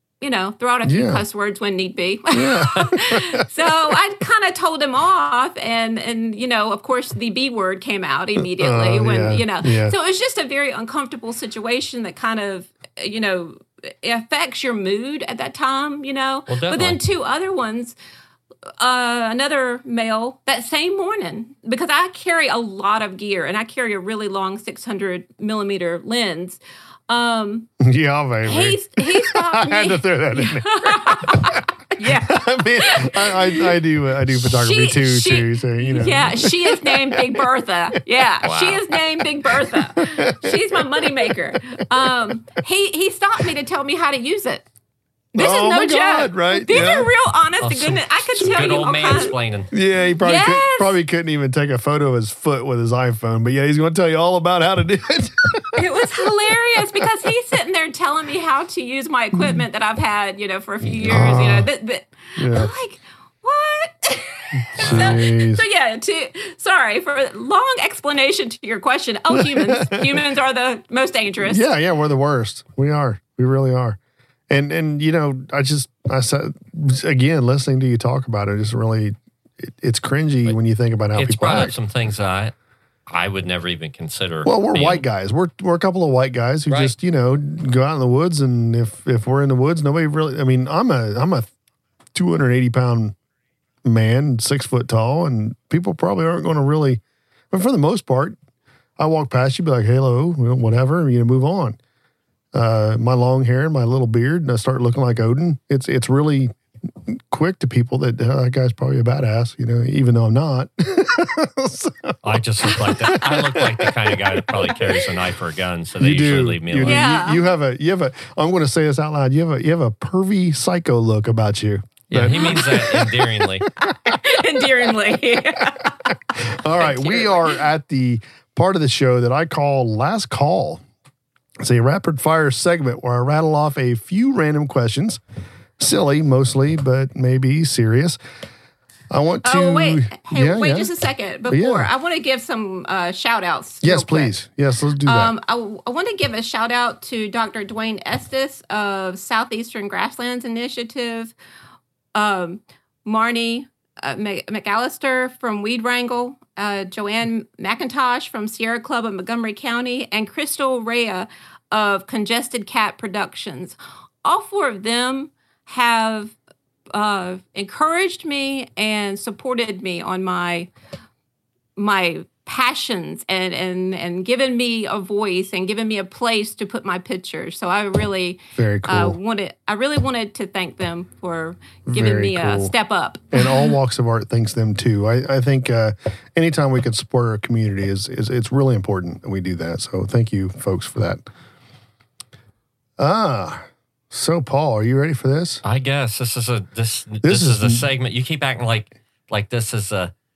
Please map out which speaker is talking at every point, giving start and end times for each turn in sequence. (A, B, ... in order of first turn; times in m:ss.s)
0:00.2-0:17.9 A
0:00.8-0:01.2 B
0:02.3-0:03.4 B
0:08.4-0:09.9 B
0:16.5-0:17.0 C
0:18.8-0:27.7 A
0:27.8-0:37.4 B
0:28.4-0:33.8 A
0:34.4-0:44.6 A
0:38.4-0:38.8 C
0:39.4-0:42.3 B
0:45.3-0:49.4 A
0:45.4-0:47.1 B
0:47.6-0:49.7 C
0:49.7-0:56.0 B
0:50.2-0:51.0 A
0:55.7-1:11.6 A
1:00.9-1:01.7 B
1:02.4-1:02.7 B
1:04.6-1:05.6 B
1:04.8-1:05.2 C
1:09.3-1:10.2 B
1:11.4-1:14.0 B
1:14.5-1:21.8 B
1:21.2-1:22.5 C
1:23.1-1:25.0 C
1:24.4-1:31.5 B
1:32.1-1:33.2 B
1:33.8-1:38.4 B
1:39.0-1:41.8 B
1:42.5-1:46.5 B
1:47.1-1:55.0 B
1:52.2-1:57.1 C
1:56.0-2:04.2 B
1:56.8-1:57.5 A
2:02.1-2:03.6 C
2:04.0-2:06.1 A
2:06.3-2:10.8 B
2:06.8-2:07.6 A
2:11.6-2:15.2 B
2:15.8-2:18.2 B
2:19.1-2:20.9 B
2:19.4-2:24.3 A
2:21.5-2:21.9 B
2:23.8-2:25.3 B
2:25.0-2:31.3 A
2:32.1-2:46.4 A
2:46.9-2:50.7 A
2:51.8-3:03.7 A
2:58.6-2:59.2 B
3:01.9-3:02.7 B
3:03.3-3:11.2 B
3:13.0-3:15.6 B
3:15.6-3:20.1 C
3:17.2-3:17.8 B